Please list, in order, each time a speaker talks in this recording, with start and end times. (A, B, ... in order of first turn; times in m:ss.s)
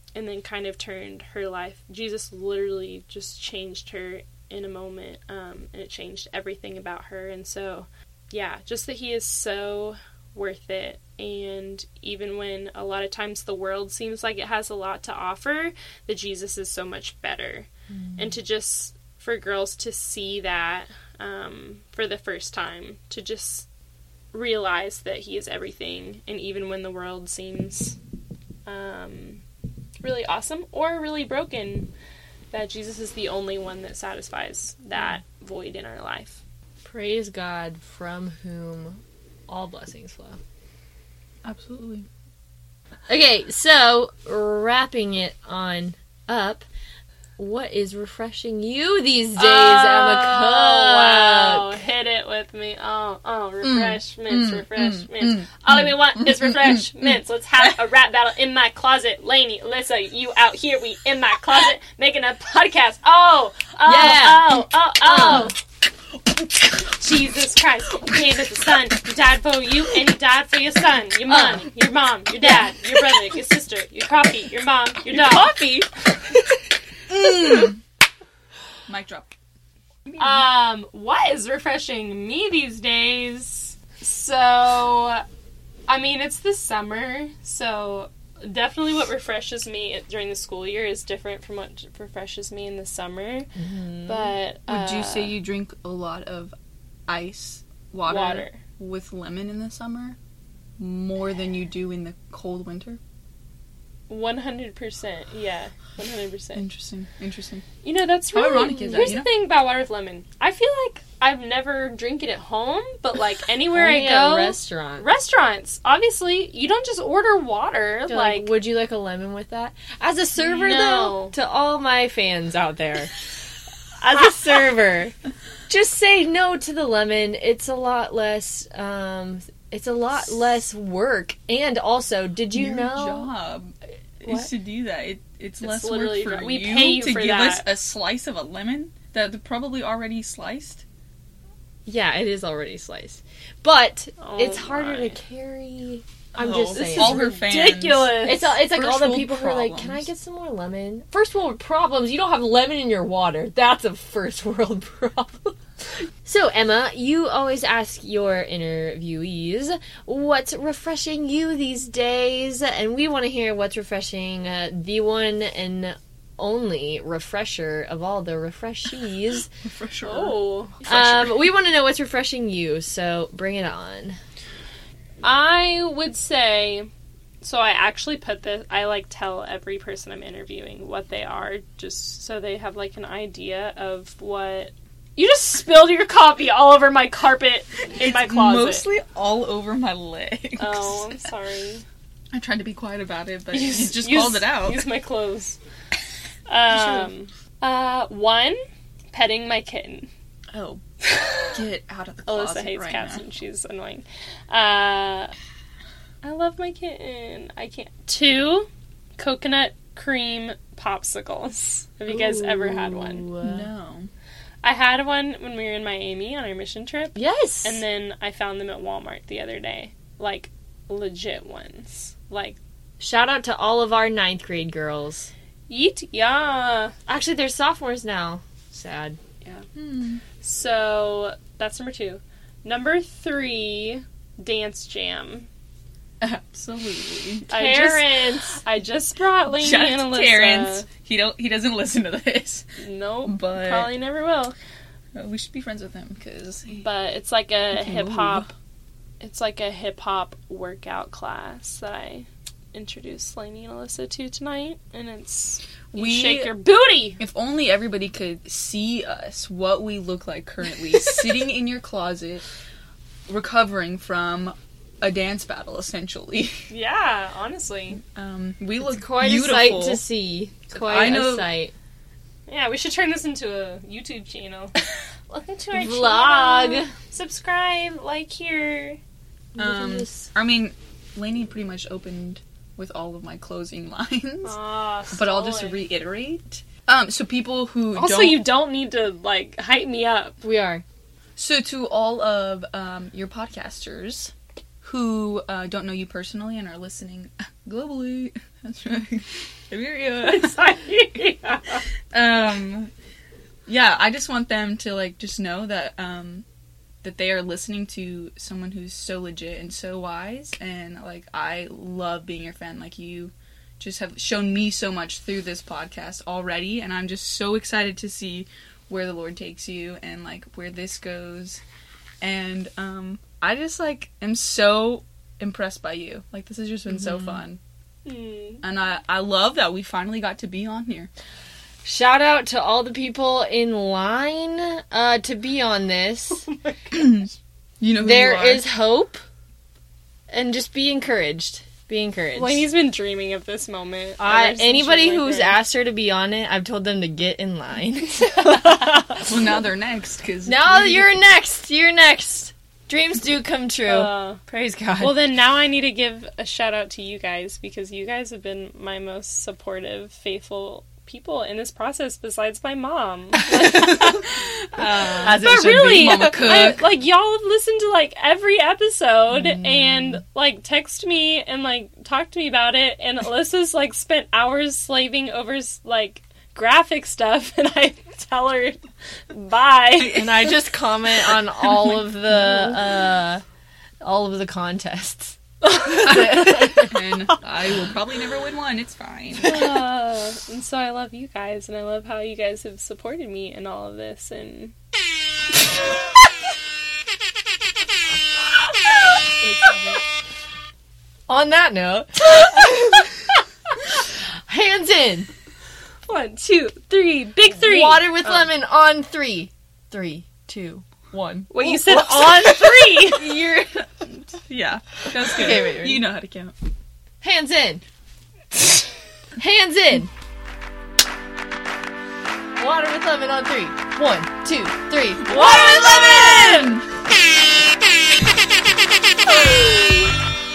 0:00.2-0:23.7 A
0:17.9-0:18.3 B
0:24.3-0:28.0 A
0:28.7-0:29.4 A
0:30.0-0:31.9 A
0:32.5-0:36.4 A
0:36.8-0:40.4 B
0:41.4-0:42.1 C
0:43.1-0:46.6 B
0:47.4-0:51.8 B
0:49.4-1:05.6 A
0:53.6-0:57.1 C
1:03.8-1:05.5 B
1:06.9-1:15.6 A
1:11.3-1:11.7 B
1:12.4-1:12.7 B
1:15.2-1:15.6 C
1:17.1-1:17.8 C
1:18.9-1:19.3 C
1:20.0-1:20.5 C
1:20.2-1:25.2 A
1:25.9-1:33.5 A
1:33.6-1:34.4 B
1:34.1-1:35.3 A
1:34.7-1:36.5 C
1:37.1-1:40.2 C
1:38.1-1:38.6 A
1:40.8-1:43.0 C
1:44.1-1:46.6 A
1:46.6-1:47.7 C
1:47.8-1:58.5 A
1:48.3-1:49.3 C
1:53.7-1:55.1 B
1:58.1-2:03.1 B
2:00.4-2:01.3 A
2:04.0-2:05.1 B
2:05.7-2:13.3 B
2:12.5-2:20.8 C
2:15.6-2:17.7 A
2:21.9-2:27.3 B
2:24.2-2:25.2 A
2:26.4-2:30.1 C
2:26.7-2:28.6 A
2:28.2-2:35.6 B
2:36.2-2:49.5 B
2:49.6-2:51.4 C
2:50.0-2:50.8 A
2:50.9-2:54.2 B
2:55.2-2:56.9 A
2:57.4-3:08.9 A
3:08.0-3:11.3 C
3:10.6-3:11.8 A
3:12.3-3:14.8 C
3:13.5-3:15.6 A
3:16.5-3:18.6 A
3:16.7-3:17.1 C
3:19.1-3:20.1 A
3:20.5-3:20.8 C
3:21.0-3:21.6 A
3:21.4-3:23.3 C
3:22.3-3:25.3 A
3:26.2-3:33.2 A
3:32.1-3:33.7 B
3:33.4-3:34.1 C
3:34.6-3:42.6 A
3:37.2-3:37.8 B
3:43.0-3:45.3 B
3:45.7-3:47.0 A
3:47.1-3:49.2 B
3:49.8-3:50.2 C
3:50.4-3:55.5 A
3:56.2-3:57.5 C
3:57.5-3:58.6 B
3:57.5-4:00.9 A
3:59.5-4:02.7 C
4:02.8-4:04.6 A
4:03.2-4:03.9 C
4:05.2-4:06.8 C
4:06.7-4:08.5 A
4:07.7-4:08.5 C
4:09.2-4:17.2 A
4:15.9-4:16.5 C
4:17.2-4:22.5 C
4:23.3-4:26.7 C
4:26.7-4:28.0 A
4:28.0-4:30.0 C
4:28.8-4:31.7 B
4:30.7-4:31.5 C
4:32.5-4:34.8 A
4:35.3-4:39.0 A
4:35.7-4:36.9 B
4:39.6-4:40.3 B
4:39.6-4:44.6 C
4:44.4-4:45.8 A
4:45.1-4:48.5 C
4:48.0-4:50.4 A
4:50.4-4:50.8 B
4:51.4-5:00.6 C
5:00.2-5:01.8 A
5:02.1-5:02.9 C
5:03.7-5:06.4 C
5:07.0-5:21.6 C
5:22.2-5:27.6 C
5:26.9-5:27.4 B
5:28.0-5:28.6 A
5:28.6-5:31.1 C
5:31.8-5:36.5 B
5:36.5-5:37.2 A
5:36.9-5:38.7 C
5:38.0-5:39.2 B
5:40.3-5:42.6 B
5:42.4-5:45.6 A
5:44.2-5:49.3 B
5:49.2-5:51.1 C
5:50.5-5:55.2 B
5:53.9-5:54.4 A
5:55.0-6:04.2 A
6:03.5-6:04.2 B
6:03.8-6:06.8 C
6:05.2-6:06.7 B
6:05.3-6:20.5 A
6:09.5-6:10.2 C
6:20.0-6:23.4 B
6:20.3-6:20.6 C
6:21.6-6:22.8 C
6:24.0-6:27.3 B
6:25.9-6:29.7 C
6:29.4-6:34.7 A
6:39.4-6:39.7 B
6:39.5-6:40.0 C
6:41.3-6:45.3 B
6:46.1-6:48.5 A
6:47.5-6:53.9 B
6:51.5-6:53.4 A
6:54.1-6:56.5 C
6:55.2-6:56.0 B
6:57.2-6:57.8 B
6:59.4-7:00.1 B
7:02.6-7:06.8 B
7:05.3-7:06.9 C
7:09.2-7:10.2 B